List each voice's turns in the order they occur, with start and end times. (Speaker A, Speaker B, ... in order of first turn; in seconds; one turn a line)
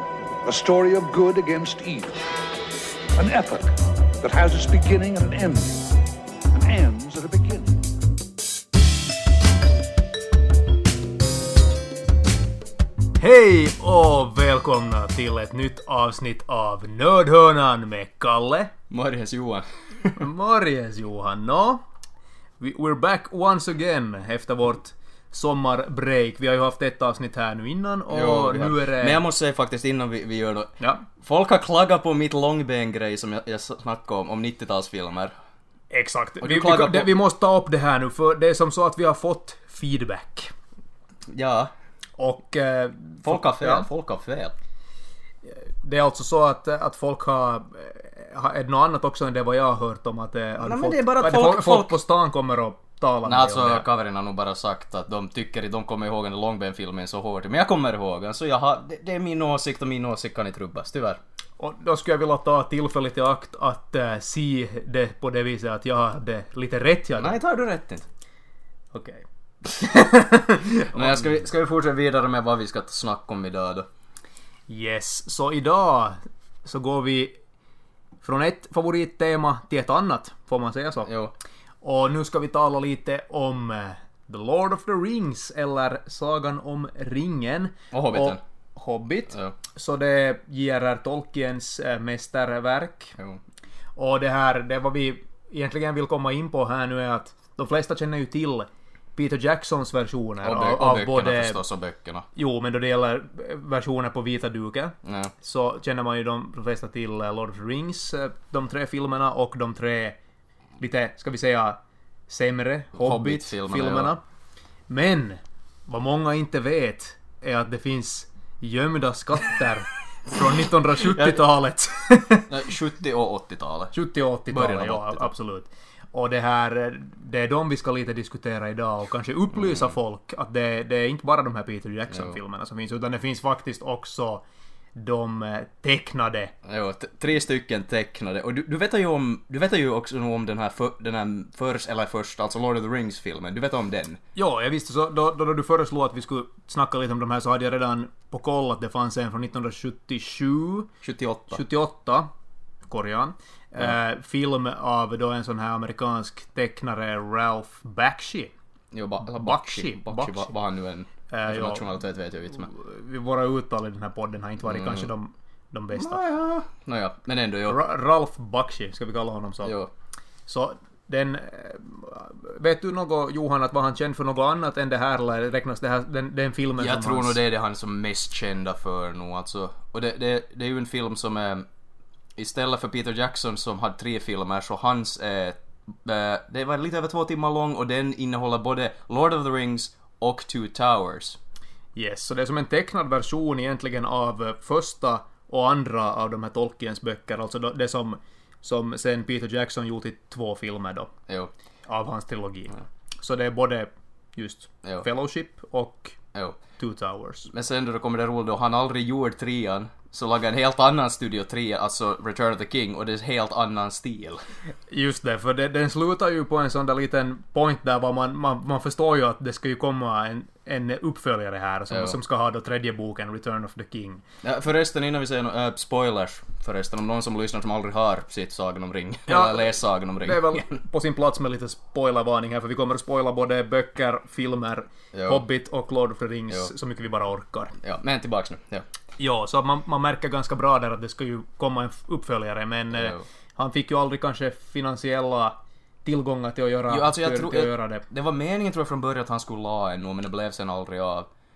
Speaker A: 0.4-2.2
Speaker A: 3.1-5.9
Speaker A: 6.5-7.8
Speaker B: 13.2-18.7
Speaker C: 18.9-20.2
Speaker B: 20.1-21.8
Speaker B: 22.6-29.2
Speaker C: 28.1-35.3
Speaker B: 35.9-40.5
Speaker C: 36.4-37.2
Speaker C: 41.3-41.7
Speaker B: 42.2-43.9
Speaker C: 43.2-44.5
Speaker B: 45.4-53.9
Speaker C: 50.6-52.0
Speaker C: 53.2-61.2
Speaker B: 61.6-67.4
Speaker C: 67.2-68.1
Speaker B: 68.9-71.2
Speaker C: 70.9-73.9
Speaker B: 74.7-77.3
Speaker B: 78.2-81.1
Speaker C: 81.0-81.3
Speaker B: 81.8-93.2
Speaker C: 87.9-88.4
Speaker C: 89.3-89.5
Speaker B: 94.0-101.6
Speaker C: 100.4-102.2
Speaker B: 102.3-110.2
Speaker C: 105.0-105.3
Speaker B: 110.8-114.2
Speaker C: 112.9-114.1
Speaker B: 114.9-122.5
Speaker C: 121.0-121.5
Speaker C: 122.5-123.9
Speaker B: 123.9-134.4
Speaker C: 124.5-125.3
Speaker C: 129.5-129.9
Speaker C: 132.1-132.4
Speaker B: 134.9-136.5
Speaker C: 136.6-144.2
Speaker B: 144.3-150.9
Speaker C: 151.0-151.6
Speaker B: 151.5-152.3
Speaker B: 152.9-158.5
Speaker C: 158.9-162.7
Speaker B: 159.2-160.5
Speaker B: 161.3-161.9
Speaker B: 162.5-166.2
Speaker C: 164.7-165.1
Speaker C: 165.9-167.8
Speaker B: 167.7-169.8
Speaker C: 169.6-169.9
Speaker B: 170.5-177.4
Speaker C: 176.8-181.7
Speaker C: 182.3-191.4
Speaker B: 191.9-201.1
Speaker B: 201.9-206.2
Speaker B: 206.8-207.5
Speaker C: 207.5-214.4
Speaker B: 214.9-224.2
Speaker C: 221.9-222.2
Speaker C: 224.4-230.7
Speaker B: 229.3-237.7
Speaker C: 235.1-235.4
Speaker C: 237.8-238.8
Speaker B: 239.2-248.0
Speaker C: 242.9-243.2
Speaker C: 246.9-251.3